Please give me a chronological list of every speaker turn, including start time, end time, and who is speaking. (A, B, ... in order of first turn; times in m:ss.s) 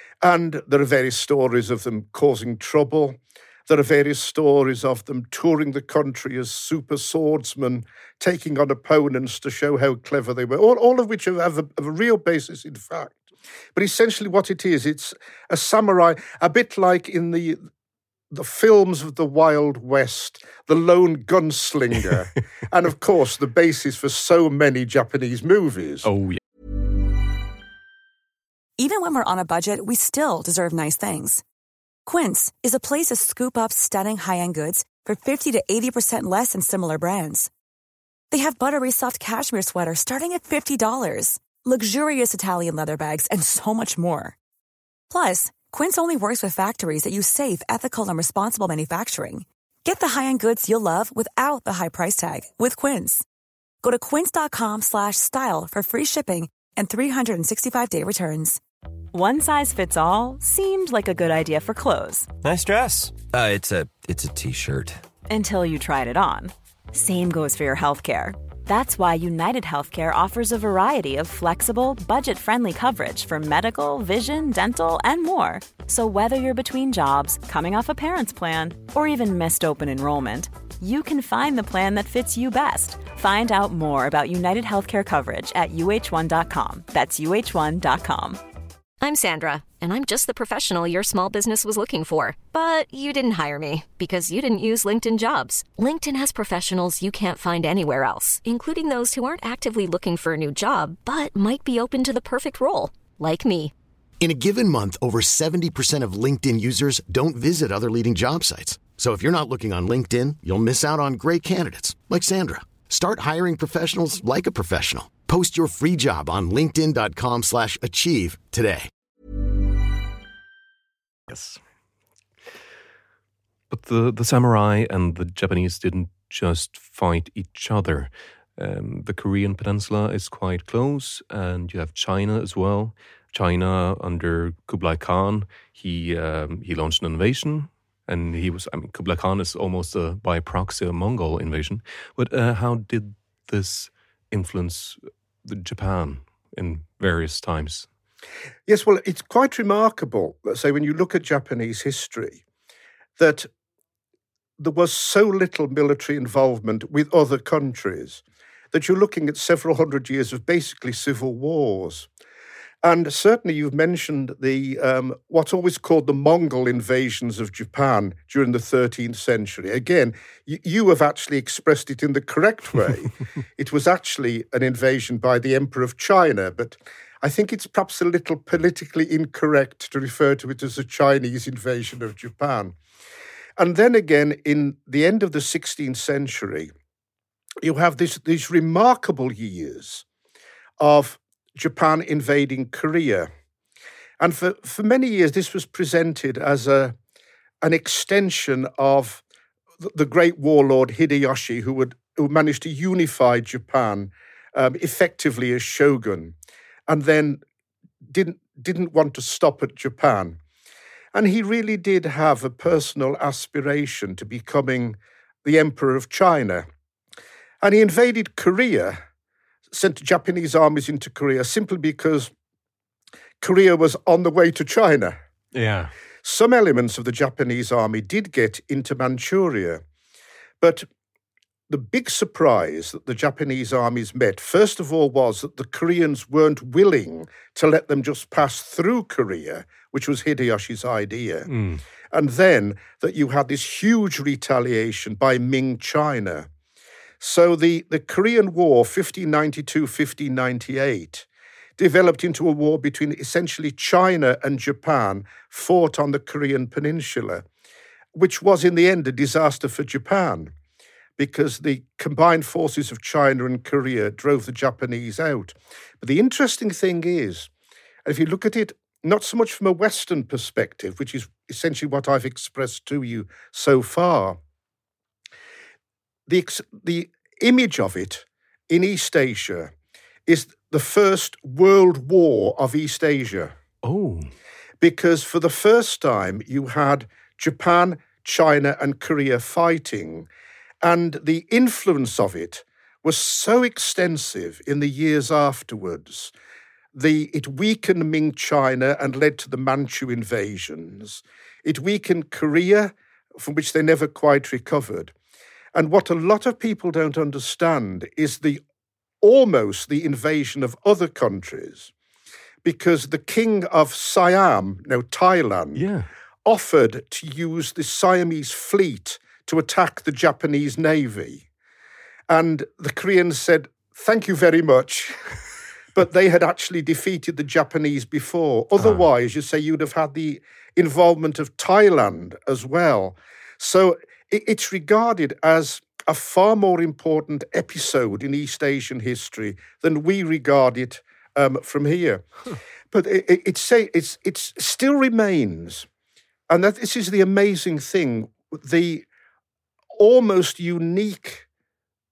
0:00.2-0:13.2 A
0:13.7-0:17.6 A
0:18.3-0:26.1 A
0:26.0-0:26.4 B
0:28.8-0:31.4 C
0:32.0-0:37.5 C
0:38.3-0:44.4 C
0:45.1-0:53.2 C
0:53.8-0:58.6 C
0:59.1-1:02.3 D
1:02.4-1:05.0 E
1:05.3-1:28.4 D
1:29.0-1:43.7 F
1:44.2-1:58.9 G
2:01.3-2:01.6 B
2:03.7-2:27.9 B
2:28.7-2:32.4 A
2:33.2-2:33.5 A
2:34.6-2:42.1 A
2:42.8-3:02.7 A
3:03.6-3:06.7 A
3:07.6-3:10.0 A
3:10.8-3:13.3 A
3:14.2-3:17.0 A
3:17.6-3:19.2 A
3:19.8-3:26.3 A
3:26.9-3:27.4 A
3:28.0-3:30.4 A
3:31.1-3:36.7 A
3:37.6-3:39.0 A
3:39.7-3:42.3 A
3:43.4-3:45.2 A
3:45.5-3:45.9 B
3:46.2-3:49.8 A
3:50.6-3:50.9 A
3:51.7-4:01.5 A
4:01.5-4:01.8 B
4:02.1-4:06.5 A
4:07.2-4:11.2 A
4:11.8-4:17.4 A
4:18.1-4:20.5 A
4:21.2-4:27.5 A
4:28.0-4:34.4 A
4:36.3-4:39.7 A
4:40.2-4:43.5 A
4:43.8-4:44.3 B
4:44.8-4:50.3 A
4:50.8-4:56.3 A
4:56.9-5:05.1 A
5:05.7-5:08.6 A
5:09.2-5:11.9 A
5:12.6-5:15.9 A
5:15.7-5:16.1 B
5:16.4-5:21.5 A
5:22.3-5:25.4 A
5:25.9-5:42.2 A
5:28.8-5:29.0 B
5:42.9-5:45.9 A
5:46.5-5:49.0 A
5:49.9-5:51.4 A